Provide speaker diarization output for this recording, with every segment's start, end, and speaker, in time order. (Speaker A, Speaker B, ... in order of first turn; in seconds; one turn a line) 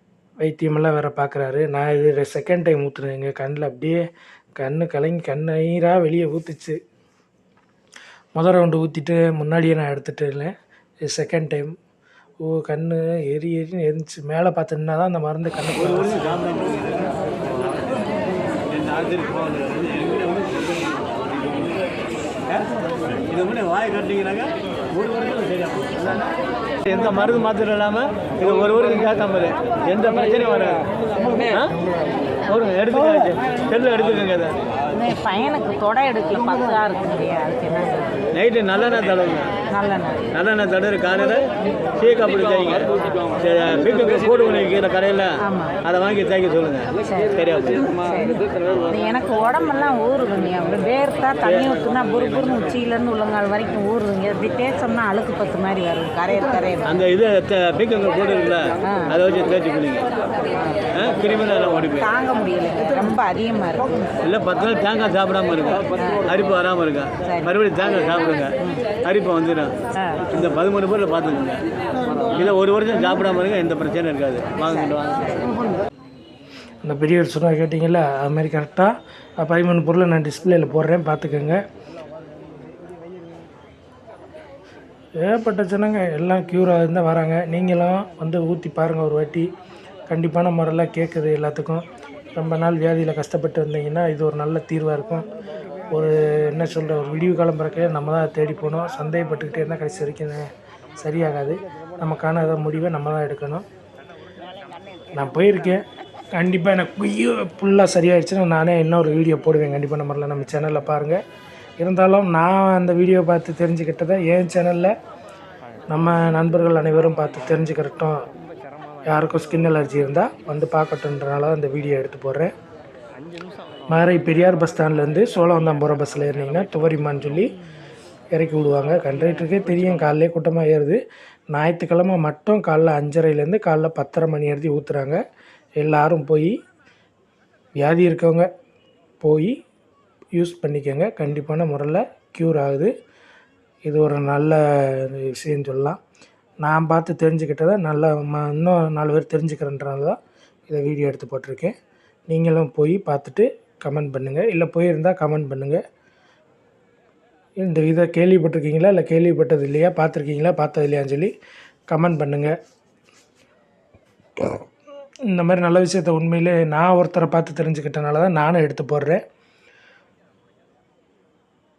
Speaker A: 0.4-4.0
Speaker A: 4.6-6.8
Speaker A: 8.3-10.5
Speaker A: 11.1-11.8
Speaker A: 12.4-16.2
Speaker B: 15.8-17.2
Speaker B: 18.7-21.1
Speaker B: 23.3-26.3
Speaker B: 26.9-31.8
Speaker B: 32.5-34.6
Speaker C: 34.9-38.3
Speaker B: 38.3-39.6
Speaker C: 39.7-40.3
Speaker B: 40.3-41.5
Speaker B: 42.0-48.0
Speaker C: 45.4-45.8
Speaker C: 47.1-47.4
Speaker C: 48.0-57.0
Speaker B: 51.5-52.2
Speaker B: 56.9-60.1
Speaker C: 58.8-59.2
Speaker B: 60.9-62.1
Speaker C: 62.0-64.1
Speaker B: 64.2-75.5
Speaker C: 66.0-66.2
Speaker C: 67.2-67.5
Speaker A: 76.8-81.6
Speaker A: 85.2-89.5
Speaker A: 90.1-95.3
Speaker A: 95.9-100.5
Speaker A: 101.0-103.7
Speaker A: 105.2-105.8
Speaker A: 106.3-111.2
Speaker A: 111.8-114.9
Speaker A: 115.9-118.3
Speaker A: 119.1-122.5
Speaker A: 123.9-127.5
Speaker A: 128.3-131.0
Speaker A: 131.5-135.2
Speaker A: 135.8-136.5
Speaker A: 137.8-138.5
Speaker A: 139.2-139.6
Speaker A: 140.3-142.9
Speaker A: 143.9-146.0
Speaker A: 146.6-150.2
Speaker A: 150.7-151.8
Speaker A: 152.3-155.8
Speaker A: 157.6-161.3
Speaker A: 161.9-162.5
Speaker A: 165.3-169.2